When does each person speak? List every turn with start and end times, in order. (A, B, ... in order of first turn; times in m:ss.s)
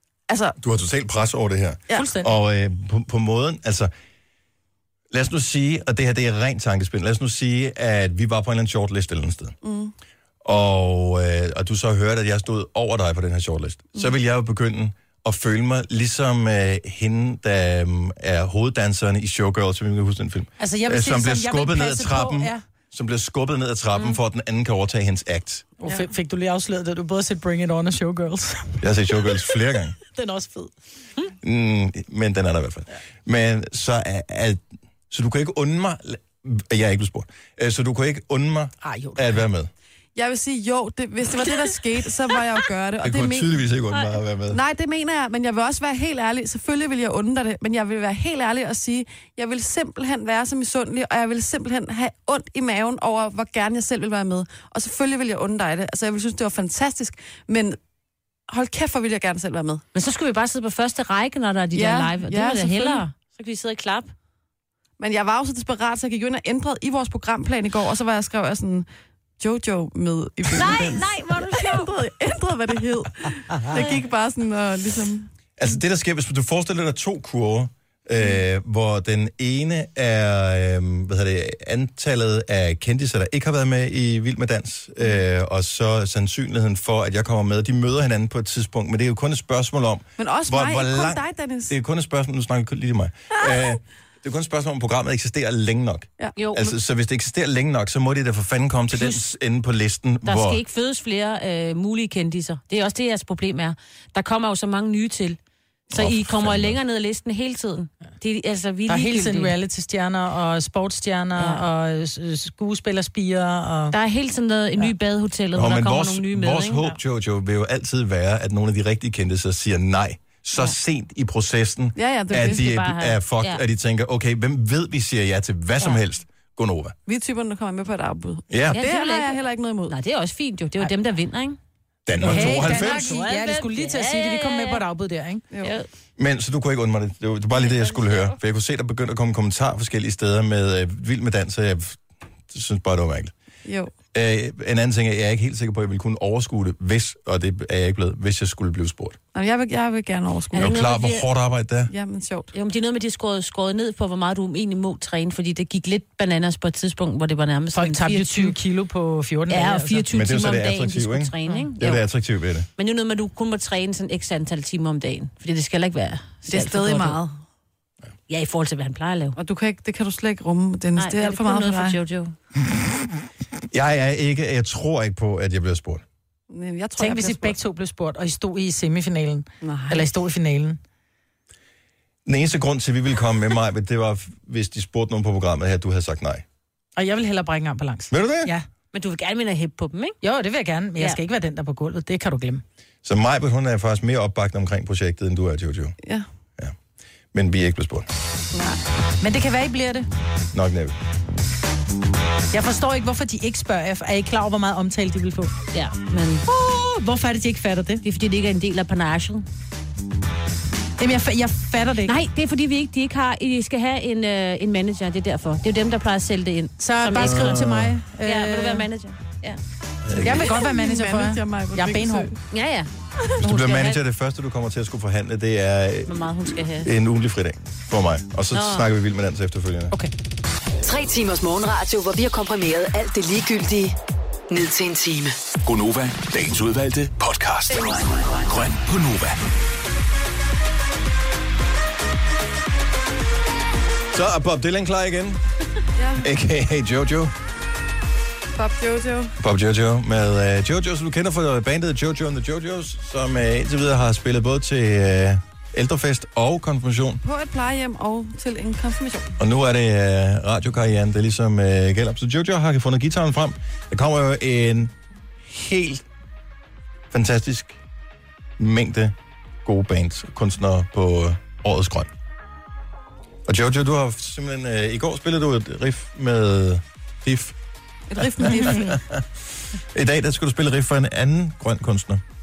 0:00.3-0:00.6 A
0:00.6-0:03.9 B
0:01.9-0:02.3 C
0:05.1-0:09.6 B
0:09.6-0:09.9 A
0:10.4-0:25.6 B
0:20.6-0:22.6 C
0:25.8-0:28.8 C
0:28.8-0:30.0 B
0:30.1-0:30.7 C
0:31.4-0:39.7 B
0:38.8-0:39.3 C
0:40.1-0:43.6 A
0:43.0-0:44.6 B
0:44.5-0:57.8 A
0:58.5-0:59.8 A
0:59.9-1:04.1 D
1:01.7-1:03.0 A
1:05.0-1:08.8 A
1:09.4-1:15.3 A
1:10.5-1:11.9 D
1:13.7-1:14.0 D
1:15.6-1:40.6 B
1:30.2-1:31.7 A
1:36.4-1:36.7 D
1:40.2-1:45.4 D
1:45.9-1:49.5 D
1:45.9-1:46.8 B
1:48.9-1:53.9 C
1:51.4-1:51.6 D
1:53.9-1:56.9 D
1:55.5-2:07.0 B
2:02.0-2:02.6 A
2:02.4-2:03.6 D
2:07.1-2:09.9 A
2:08.5-2:08.8 B
2:08.7-2:11.6 D
2:12.0-2:13.2 B
2:12.2-2:14.8 D
2:12.2-2:15.4 C
2:16.2-2:23.3 B
2:23.6-2:23.9 A
2:24.1-2:29.2 B
2:29.3-2:30.8 A
2:30.5-2:31.2 D
2:30.6-2:31.9 B
2:31.9-2:32.5 A
2:32.5-2:38.6 D
2:37.7-2:40.0 C
2:39.5-2:42.0 D
2:40.1-2:42.7 B
2:42.8-2:47.2 D
2:46.5-2:47.4 A
2:48.3-2:49.4 D
2:49.4-2:52.0 A
2:51.0-2:52.3 D
2:53.7-2:56.0 B
2:56.5-2:57.6 A
2:57.0-3:00.8 C
2:59.6-3:00.1 A
3:02.2-3:06.4 B
3:07.0-3:08.6 C
3:08.1-3:08.5 B
3:08.9-3:10.2 D
3:10.2-3:12.6 C
3:13.0-3:15.9 B
3:17.3-3:18.1 B
3:18.5-3:18.8 A
3:19.2-3:20.1 C
3:20.5-3:20.9 B
3:22.5-3:25.5 C
3:25.7-3:26.4 D
3:26.4-3:28.0 C
3:28.0-3:29.4 D
3:31.0-3:32.2 C
3:32.0-3:37.7 D
3:36.8-3:38.8 C
3:37.1-3:38.0 B
3:38.2-3:39.6 D
3:40.0-3:40.5 B
3:40.2-3:42.3 C
3:40.4-3:42.4 A
3:42.5-3:44.0 D
3:43.4-3:50.0 B
3:46.1-3:46.9 D
3:48.5-3:48.8 D
3:50.8-3:54.0 E
3:54.5-3:55.4 E
3:55.6-3:59.4 F
4:04.1-4:05.4 B
4:06.0-4:06.3 A
4:06.2-4:07.3 B
4:08.5-4:09.3 A
4:09.4-4:17.2 B
4:17.2-4:19.3 A
4:19.4-4:24.9 B
4:25.4-4:26.0 B
4:27.1-4:27.8 B
4:28.6-4:32.1 B
4:33.4-4:37.6 B
4:38.1-4:39.0 A
4:38.2-4:42.2 B